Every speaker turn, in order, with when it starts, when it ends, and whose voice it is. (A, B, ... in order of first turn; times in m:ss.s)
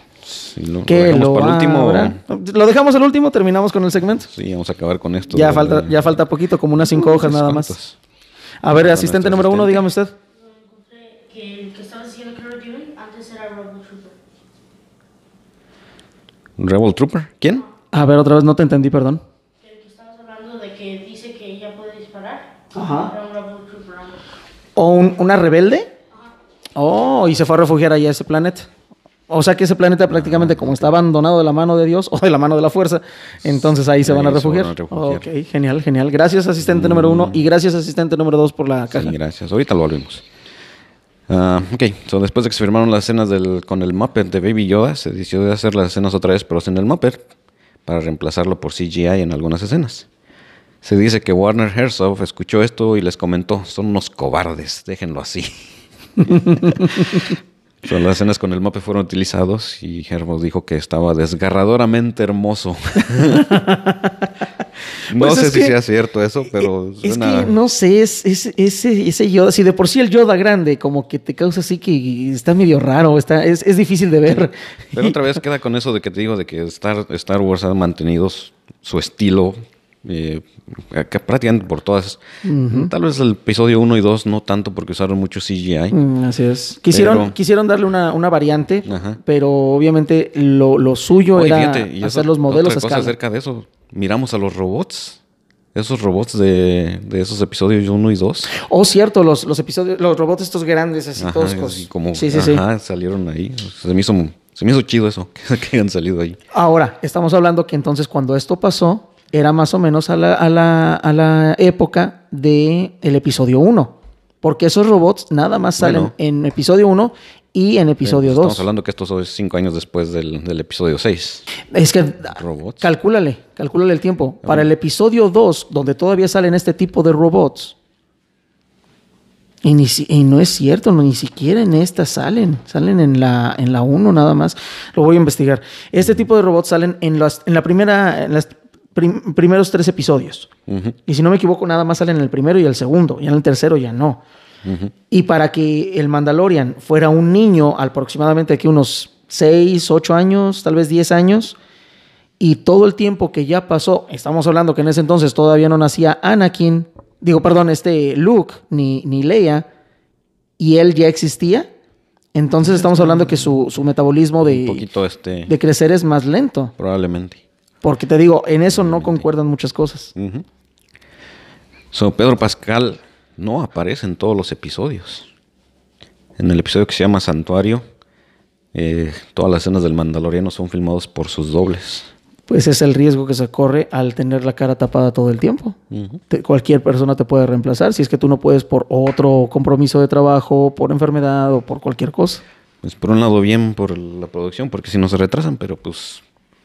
0:00.2-0:02.2 A
0:00.9-0:04.3 B
0:04.2-0:06.2 A
0:05.3-0:07.8 B
0:06.8-0:08.0 A
0:08.6-0:10.1 B
0:08.7-0:09.9 A
0:10.3-0:14.2 C
0:16.6-0:17.6 A
0:17.9-0:19.2 B
0:19.6-0:24.2 C
0:22.7-0:23.1 B
0:24.8-0:25.9 B
0:26.8-0:28.7 B
0:29.3-0:39.1 B
0:30.1-0:30.9 A
0:34.0-0:35.2 A
0:36.6-0:37.4 A
0:38.9-0:40.2 A
0:41.3-0:47.2 A
0:47.8-0:50.1 A
0:50.8-0:55.7 A
0:56.3-1:03.5 A
0:56.5-0:56.8 B
1:03.2-1:04.2 B
1:05.1-1:07.5 A
1:05.1-1:05.7 B
1:06.5-1:15.2 B
1:14.9-1:25.9 A
1:22.4-1:22.9 B
1:25.9-1:33.1 B
1:26.9-1:27.4 A
1:28.8-1:29.2 A
1:31.3-1:35.2 A
1:35.7-1:38.5 A
1:38.5-1:42.6 B
1:41.2-1:46.4 A
1:46.5-1:58.6 B
1:55.8-1:56.1 A
1:58.0-2:01.5 A
2:01.6-2:07.7 B
2:02.3-2:02.8 A
2:09.6-2:20.5 B
2:20.7-2:21.0 A
2:21.0-2:24.2 B
2:24.6-2:24.9 A
2:25.1-2:31.6 B
2:32.4-2:39.7 B
2:40.6-2:41.7 B
2:42.3-2:44.8 B
2:42.7-2:43.3 A
2:44.4-2:45.5 A
2:45.5-2:46.7 B
2:46.8-2:47.4 A
2:47.8-2:50.1 B
2:48.7-2:49.2 A
2:50.1-2:50.4 A
2:51.9-2:55.3 A
2:56.4-2:57.8 A
2:58.7-3:02.1 A
3:02.5-3:05.8 B
3:05.9-3:06.2 A
3:06.3-3:12.4 B
3:12.8-3:16.2 A